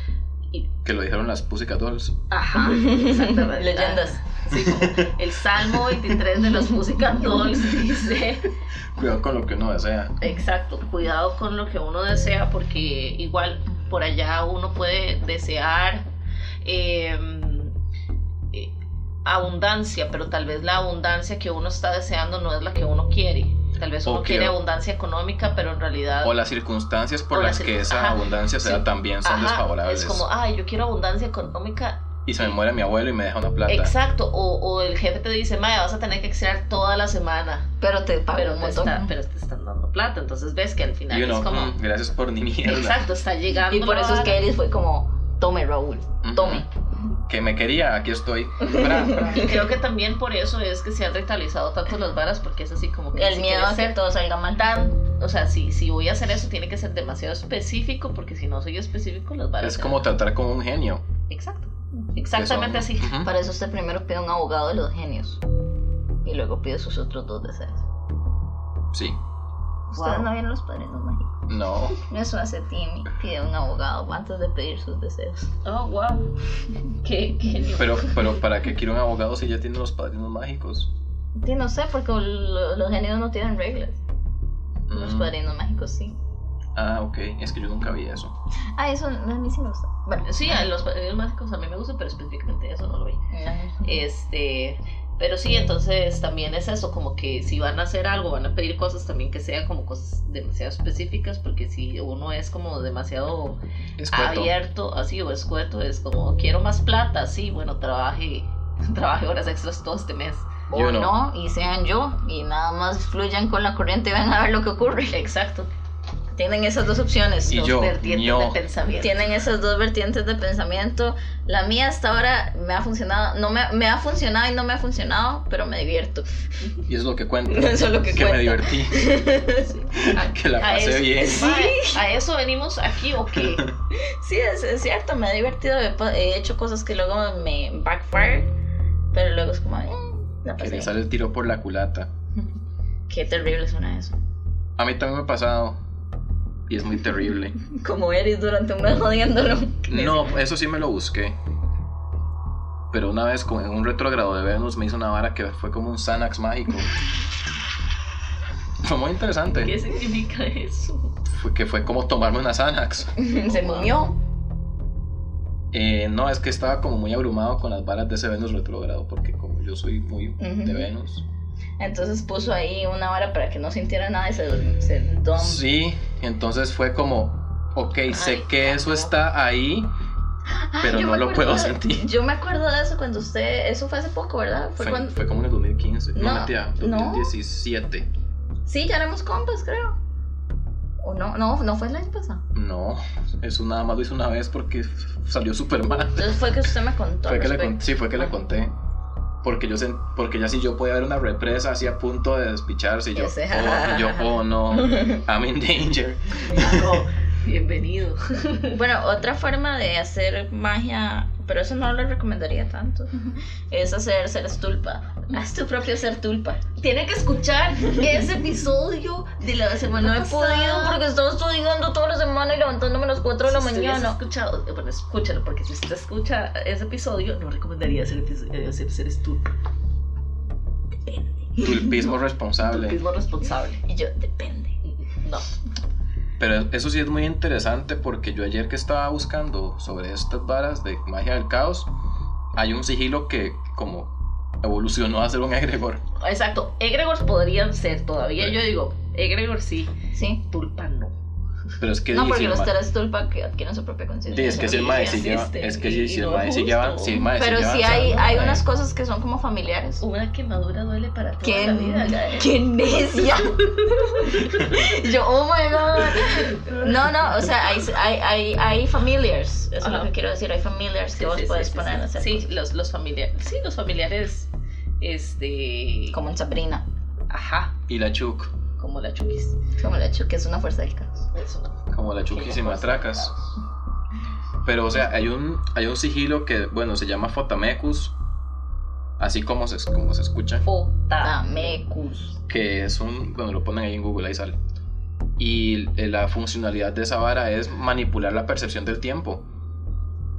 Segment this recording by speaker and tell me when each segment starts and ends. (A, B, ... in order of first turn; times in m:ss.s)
0:00.8-0:02.2 A
0:02.3-0:08.5 B
0:02.6-0:04.2 C
0:04.6-0:06.2 A
0:09.0-0:10.2 A
0:10.2-0:16.1 B
0:16.6-0:17.7 B
0:19.2-0:26.4 B
0:24.0-0:24.6 A
0:26.2-0:30.3 A
0:27.3-0:32.6 B
0:32.3-0:33.9 A
0:33.7-0:37.7 B
0:37.8-0:39.1 C
0:38.3-0:41.8 B
0:41.1-0:43.0 A
0:42.6-0:44.4 B
0:43.7-0:46.7 C
0:46.2-0:46.7 A
0:47.3-0:49.5 A
0:48.6-0:49.6 C
0:49.1-1:00.1 B
0:53.1-0:54.7 C
0:59.6-1:01.0 A
1:01.3-1:03.2 B
1:02.3-1:03.3 A
1:03.2-1:05.4 C
1:06.2-1:07.8 C
1:08.9-1:09.2 A
1:09.9-1:11.3 C
1:09.9-1:10.3 B
1:11.5-1:12.0 A
1:12.0-1:15.5 C
1:15.6-1:16.3 B
1:16.9-1:18.4 B
1:17.7-1:20.9 A
1:21.4-1:24.0 C
1:24.9-1:25.3 A
1:24.9-1:26.2 C
1:26.8-1:28.3 A
1:28.8-1:30.7 C
1:30.3-1:33.2 B
1:33.3-1:34.0 C
1:33.8-1:50.7 B
1:44.0-1:44.5 A
1:50.7-1:55.2 C
1:50.7-1:51.1 A
1:55.1-1:55.7 B
1:56.3-1:57.7 C
1:57.5-1:58.6 A
1:57.5-1:59.3 B
1:59.0-2:06.3 C
2:06.9-2:09.1 A
2:07.5-2:09.7 C
2:09.7-2:13.7 B
2:10.0-2:11.6 A
2:11.2-2:12.0 C
2:13.9-2:18.5 C
2:19.1-2:21.0 C
2:20.6-2:22.1 A
2:23.1-2:24.2 C
2:24.8-2:25.8 A
2:26.7-2:27.6 A
2:27.6-2:30.3 C
2:29.9-2:31.4 A
2:32.9-2:36.9 A
2:38.8-2:39.8 A
2:39.5-2:41.1 B
2:41.3-2:43.1 A
2:43.2-2:44.2 C
2:43.5-2:43.9 B
2:45.7-2:51.2 A
2:50.4-2:50.9 C
2:51.8-2:55.6 C
2:55.4-2:59.9 A
2:58.1-2:59.2 B
3:00.5-3:05.2 C
3:00.8-3:02.1 A
3:04.8-3:08.1 A
3:06.2-3:07.3 C
3:08.7-3:10.0 C
3:11.0-3:12.4 C
3:12.5-3:16.4 A
3:16.2-3:18.3 C
3:17.3-3:18.7 A
3:19.4-3:27.0 A
3:23.1-3:25.2 C
3:26.5-3:28.8 B
3:28.7-3:36.6 C
3:36.8-3:41.0 B
3:39.9-3:44.2 C
3:43.4-3:49.5 B
3:51.1-3:52.1 C
3:51.6-3:53.0 A
3:52.6-3:53.8 B
3:53.9-3:54.8 C
3:54.8-3:55.4 B
3:56.4-4:01.9 A
4:02.6-4:06.0 A
4:06.2-4:09.9 B
4:10.1-4:10.4 C
4:10.5-4:11.1 B
4:11.8-4:12.7 A
4:12.1-4:15.0 C
4:14.3-4:18.6 A
4:14.5-4:17.3 B
4:17.3-4:20.0 C
4:20.0-4:22.5 B
4:21.4-4:32.5 C
4:23.9-4:24.7 B
4:26.2-4:26.8 B
4:29.8-4:30.1 B
4:31.1-4:34.5 B
4:35.0-4:36.2 B
4:36.1-4:36.8 C
4:37.3-4:37.8 B
4:37.9-4:38.5 A
4:38.8-4:39.6 B
4:39.8-4:41.3 C
4:41.3-4:43.6 B
4:41.9-4:43.3 A
4:44.6-4:48.1 A
4:49.2-4:50.6 A
4:50.6-4:51.8 B
4:51.2-4:52.4 C
4:52.5-4:54.6 A
4:55.4-4:59.4 A